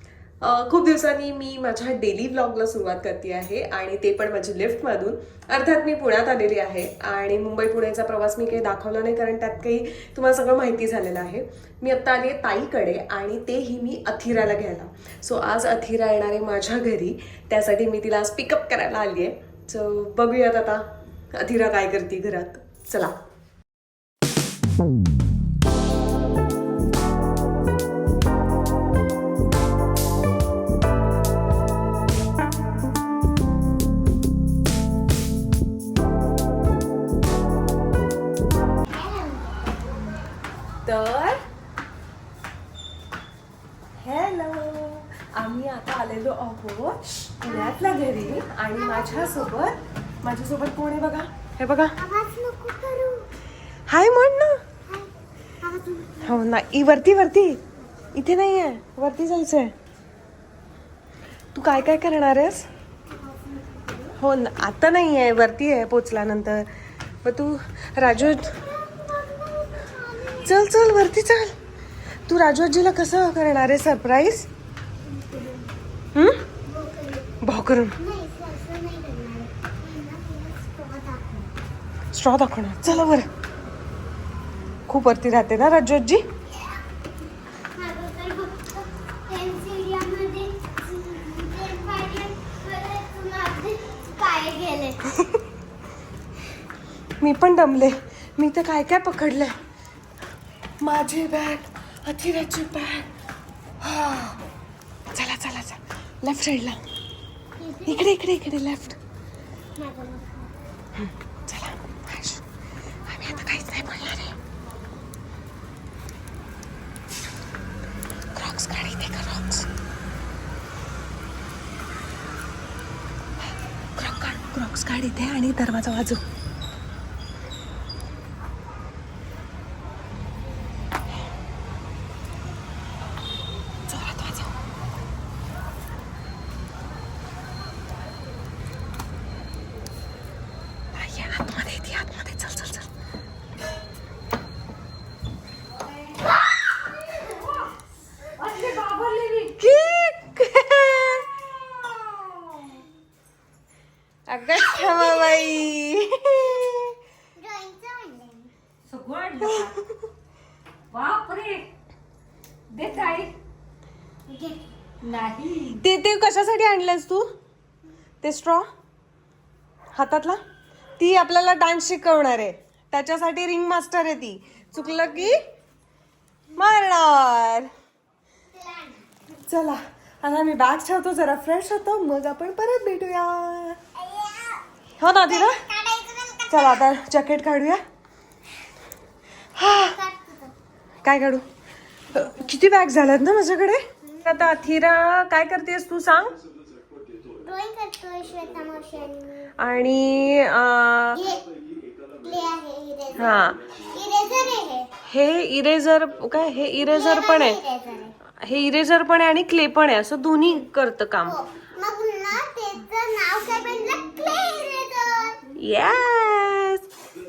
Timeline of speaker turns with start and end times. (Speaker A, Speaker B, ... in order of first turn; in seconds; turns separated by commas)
Speaker A: 0.4-23.2, Speaker B: 38.9-40.2, Speaker A: 40.8-41.4, Speaker A: 44.0-52.0, Speaker B: 47.5-49.6, Speaker B: 52.0-53.3, Speaker A: 53.9-54.6, Speaker B: 55.6-56.4, Speaker A: 56.2-57.6, Speaker A: 58.1-59.7, Speaker A: 61.5-62.7, Speaker B: 63.2-64.1, Speaker A: 64.2-66.7, Speaker A: 67.2-68.6, Speaker B: 68.4-70.6, Speaker A: 70.4-71.5, Speaker A: 72.3-74.5, Speaker B: 75.1-75.7, Speaker A: 76.1-76.4, Speaker B: 76.7-77.3, Speaker A: 77.4-78.0, Speaker B: 78.0-81.5, Speaker A: 82.1-83.3, Speaker A: 84.9-86.2, Speaker B: 87.7-95.3, Speaker A: 97.2-99.6, Speaker A: 100.8-103.1, Speaker A: 103.8-104.4, Speaker A: 105.1-106.8, Speaker B: 107.6-108.1, Speaker A: 107.9-109.0, Speaker B: 109.8-110.5, Speaker A: 111.0-112.5, Speaker A: 113.0-114.4, Speaker A: 118.3-119.7, Speaker A: 124.0-126.2, Speaker A: 133.9-134.5, Speaker A: 140.9-142.9, Speaker C: 148.4-149.6, Speaker A: 149.6-151.5, Speaker A: 154.3-156.9, Speaker B: 154.5-155.7, Speaker B: 157.4-158.5, Speaker C: 158.9-159.8, Speaker C: 160.9-161.7, Speaker C: 162.7-163.3, Speaker B: 164.3-164.7, Speaker C: 165.0-165.8, Speaker A: 165.7-167.3, Speaker A: 168.2-168.7, Speaker A: 169.9-170.4, Speaker A: 171.0-175.4, Speaker A: 176.6-177.7, Speaker B: 178.5-179.1, Speaker A: 179.5-183.8, Speaker B: 183.9-184.7, Speaker A: 185.0-185.6, Speaker B: 185.3-186.8, Speaker A: 186.5-187.8, Speaker A: 189.6-189.9, Speaker B: 189.7-190.5, Speaker A: 191.0-191.4, Speaker A: 192.1-196.3, Speaker B: 194.1-194.4, Speaker B: 197.4-199.5, Speaker A: 199.6-201.2, Speaker B: 201.1-201.4, Speaker B: 202.2-204.9, Speaker A: 203.2-203.7, Speaker A: 205.1-207.6, Speaker B: 206.9-208.2, Speaker A: 208.4-211.4, Speaker B: 211.2-215.5, Speaker A: 215.6-216.8